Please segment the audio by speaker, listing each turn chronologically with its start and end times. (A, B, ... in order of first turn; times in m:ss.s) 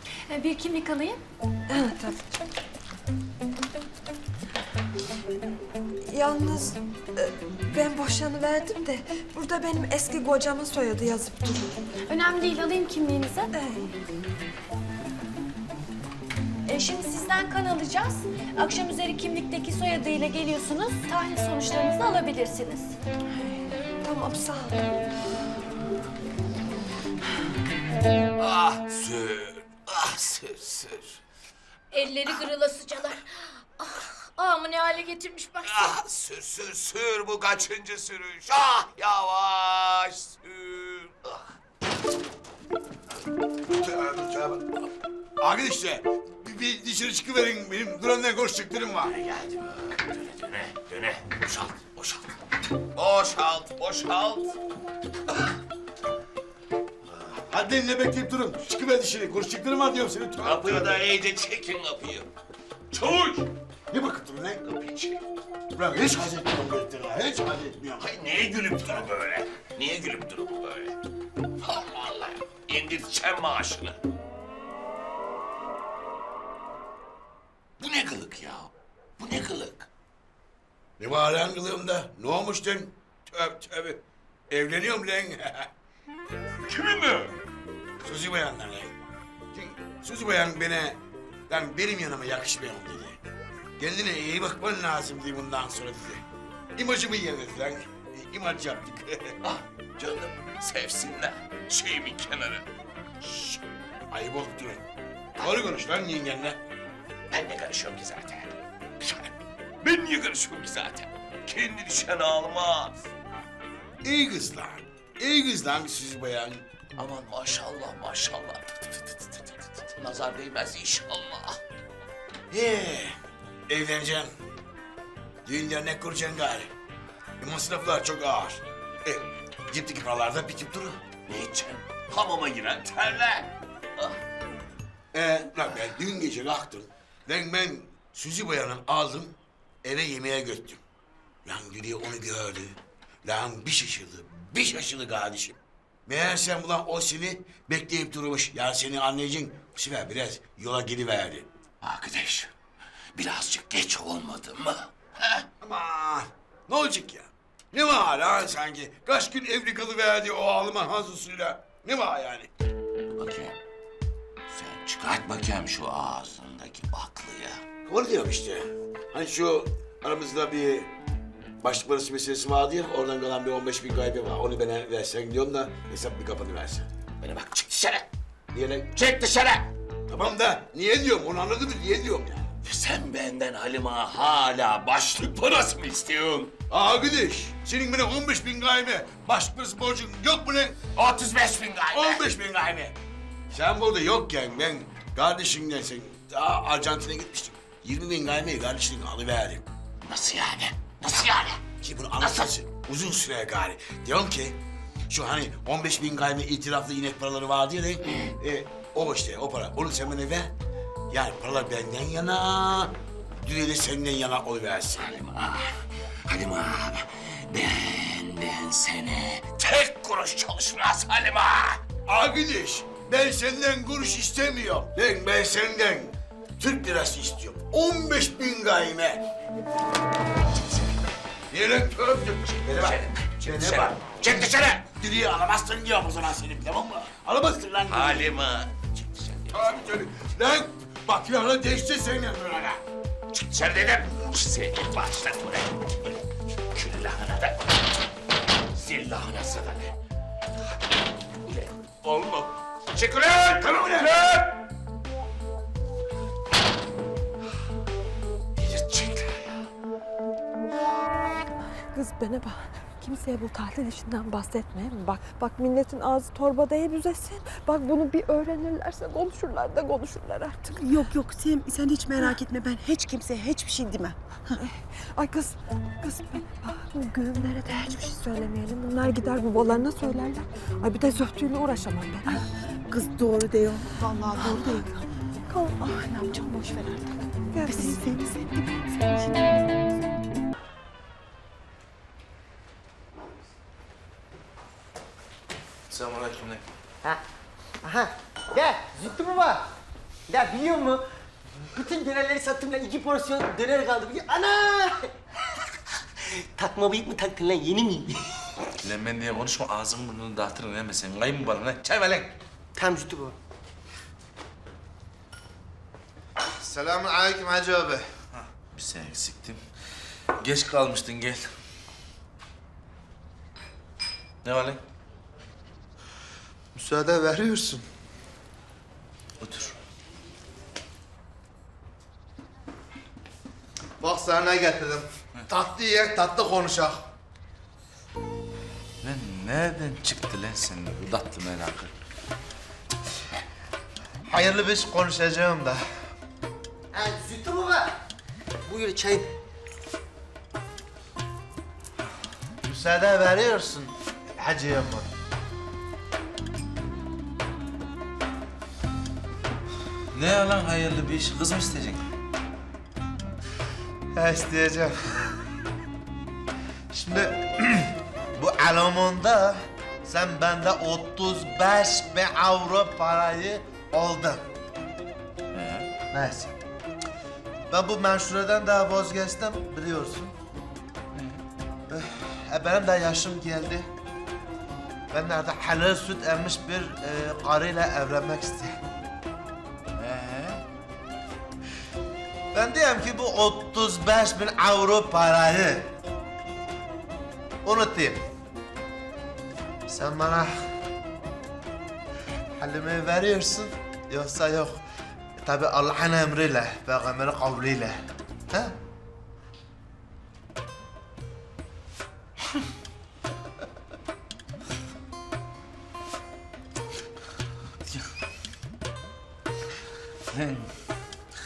0:00.3-0:01.2 A
0:01.7-0:02.2 B
0:06.0-0:11.8 B
0:12.1-0:13.5 A
0:13.5-0:13.9 B
0:16.6-0:23.0 A
0:24.0-0:24.8 B
0:28.4-0:31.2 C
0:31.9-0:33.0 D
0:34.4-0:35.9 D
0:35.6-0:41.4 C
0:43.8-0:44.6 E
0:45.4-0:49.2 E
0:49.1-0:52.3 C
0:52.9-0:54.5 C
0:57.5-1:01.0 E
1:00.4-1:02.3 C
1:02.9-1:03.5 C
1:03.9-1:04.7 E
1:04.7-1:05.2 C
1:05.8-1:08.0 E
1:08.0-1:10.9 C
1:11.6-1:14.0 C
1:17.8-1:19.9 C
1:21.0-1:25.7 E
1:26.7-1:27.3 C
1:28.0-1:28.9 E
1:29.5-1:31.0 E
1:31.5-1:33.2 E
1:33.8-1:36.2 E
1:36.8-1:39.4 E
1:39.4-1:42.7 C
1:43.2-1:43.6 C
1:44.1-1:44.8 E
1:45.4-1:46.6 E
1:47.3-1:48.5 C
1:49.0-1:49.3 C
1:49.8-1:53.0 C
1:54.0-1:56.6 E
1:57.0-2:01.6 C
2:02.5-2:03.2 E
2:03.7-2:04.3 E
2:05.4-2:06.7 E
2:07.4-2:11.0 E
2:11.3-2:14.1 C
2:15.1-2:20.8 E
2:21.4-2:31.5 E
2:31.8-2:32.5 C
2:33.1-2:35.4 C
2:35.6-2:42.5 E
2:43.1-2:43.6 C
2:44.5-2:47.6 C
2:47.8-2:50.9 E
2:51.6-2:56.9 E
2:57.2-2:58.1 C
2:58.5-2:59.0 E
2:58.9-2:59.7 C
3:00.1-3:02.5 E
3:02.6-3:06.5 C
3:06.7-3:10.9 E
3:10.9-3:12.2 C
3:11.9-3:12.9 E
3:13.5-3:19.7 E
3:20.0-3:21.6 C
3:21.8-3:24.6 E
3:22.2-3:22.5 C
3:25.1-3:30.5 E
3:31.1-3:35.2 E
3:35.0-3:41.8 C
3:42.1-3:49.2 E
3:51.5-3:54.1 E
3:52.6-3:54.8 C
3:54.9-3:58.3 E
3:57.9-3:59.8 C
3:59.5-4:02.8 E
4:03.3-4:06.1 C
4:06.7-4:07.8 C
4:08.7-4:09.9 C
4:11.5-4:14.6 C
4:13.5-4:14.3 E
4:18.6-4:19.6 C
4:21.9-4:30.8 B
4:30.8-4:34.2 F
4:34.6-4:42.4 B
4:42.9-4:45.0 F
4:45.5-4:49.7 F
4:47.5-4:48.2 B
4:55.9-4:56.6 G
4:57.8-4:59.6 H
5:00.3-5:01.0 H
5:01.7-5:05.1 H
5:06.5-5:08.2 H
5:08.8-5:12.3 G
5:12.8-5:13.3 H
5:16.6-5:18.0 I
5:18.3-5:19.6 G
5:20.4-5:21.5 G
5:24.4-5:24.8 G
5:26.7-5:27.8 I
5:29.4-5:29.7 G
5:34.0-5:37.0 I
5:39.0-5:41.9 G
5:44.3-5:45.8 I
5:46.9-5:47.9 H
5:48.7-5:49.3 H
5:52.6-5:55.1 I
6:00.1-6:02.0 G
6:04.1-6:04.9 I
6:06.9-6:14.4 I
6:15.5-6:15.9 G
6:16.1-6:16.5 I
6:17.7-6:20.3 I
6:21.9-6:23.9 I
6:25.1-6:28.8 I
6:30.0-6:30.4 G
6:32.5-6:35.9 I
6:37.6-6:38.2 I
6:39.9-6:40.6 I
6:42.6-6:44.8 I
6:45.4-6:48.0 I
6:48.5-6:48.8 I
7:00.3-7:00.7 G